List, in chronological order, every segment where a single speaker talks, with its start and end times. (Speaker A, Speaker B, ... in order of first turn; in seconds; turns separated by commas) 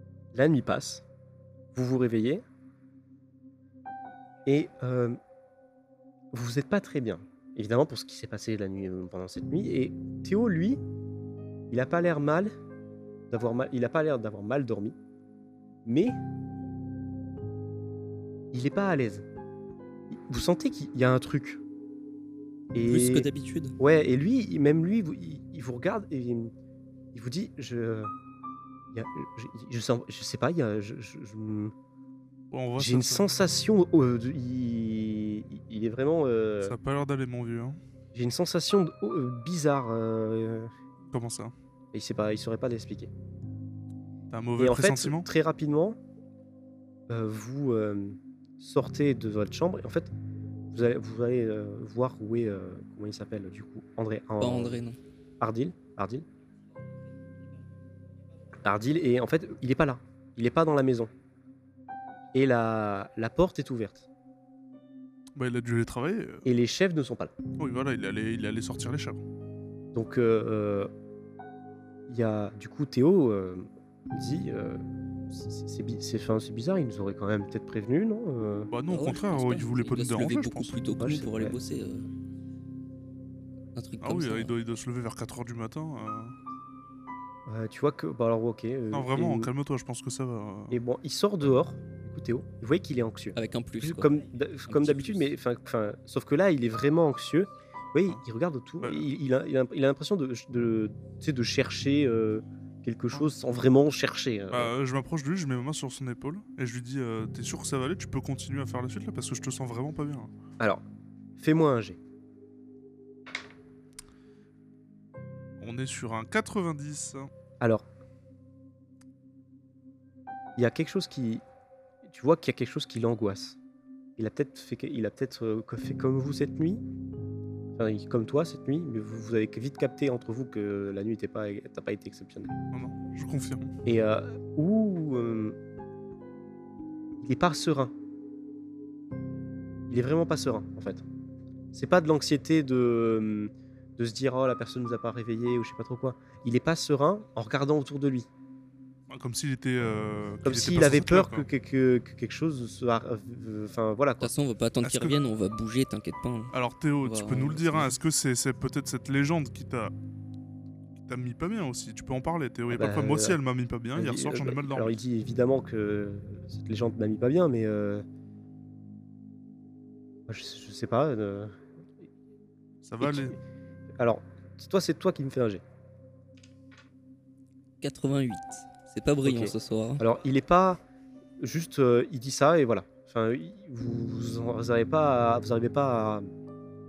Speaker A: 0.3-1.1, Speaker A: 1.7-2.4, Speaker A: 4.5-5.2, Speaker A: 6.3-10.8, Speaker A: 11.7-12.5, Speaker A: 13.3-15.0, Speaker A: 15.8-16.2, Speaker A: 18.5-19.3, Speaker A: 20.1-21.6, Speaker A: 22.7-26.5, Speaker B: 22.8-23.8, Speaker A: 27.1-28.1, Speaker A: 28.9-31.7, Speaker C: 32.5-33.3, Speaker A: 32.8-36.8, Speaker C: 36.6-37.8, Speaker A: 38.1-40.7, Speaker C: 41.1-41.5, Speaker A: 41.9-43.1, Speaker C: 44.3-45.3, Speaker A: 44.6-46.0, Speaker A: 47.1-50.1, Speaker A: 50.7-54.8, Speaker B: 54.4-55.0, Speaker A: 55.4-56.2, Speaker A: 58.6-61.1, Speaker A: 62.3-64.1, Speaker C: 65.3-66.5, Speaker A: 66.5-67.3, Speaker C: 67.6-69.2, Speaker A: 69.9-70.9, Speaker A: 72.1-78.7, Speaker C: 78.7-80.8, Speaker B: 78.9-82.1, Speaker A: 81.0-81.5, Speaker B: 83.8-84.5, Speaker C: 84.0-86.3, Speaker A: 87.5-89.5, Speaker C: 88.9-90.8, Speaker A: 90.7-104.7, Speaker B: 93.3-94.1, Speaker B: 94.7-95.3, Speaker C: 98.8-99.1, Speaker C: 104.5-110.3, Speaker A: 111.4-112.0, Speaker C: 115.6-117.3, Speaker A: 120.6-121.4, Speaker A: 122.1-123.6, Speaker A: 124.2-126.8, Speaker A: 127.8-132.5, Speaker C: 132.7-133.7, Speaker A: 133.8-135.6, Speaker A: 137.2-137.9, Speaker A: 139.9-141.0, Speaker A: 141.7-148.3, Speaker C: 149.1-151.5, Speaker A: 150.4-154.3, Speaker B: 154.2-158.0, Speaker C: 154.8-155.2, Speaker C: 156.5-159.9, Speaker C: 161.0-165.0, Speaker A: 162.7-163.4, Speaker A: 163.9-168.0, Speaker A: 170.3-172.1, Speaker C: 172.8-173.4, Speaker A: 173.0-173.4, Speaker A: 174.0-175.6, Speaker B: 177.8-180.0, Speaker A: 179.2-180.8, Speaker A: 181.4-186.2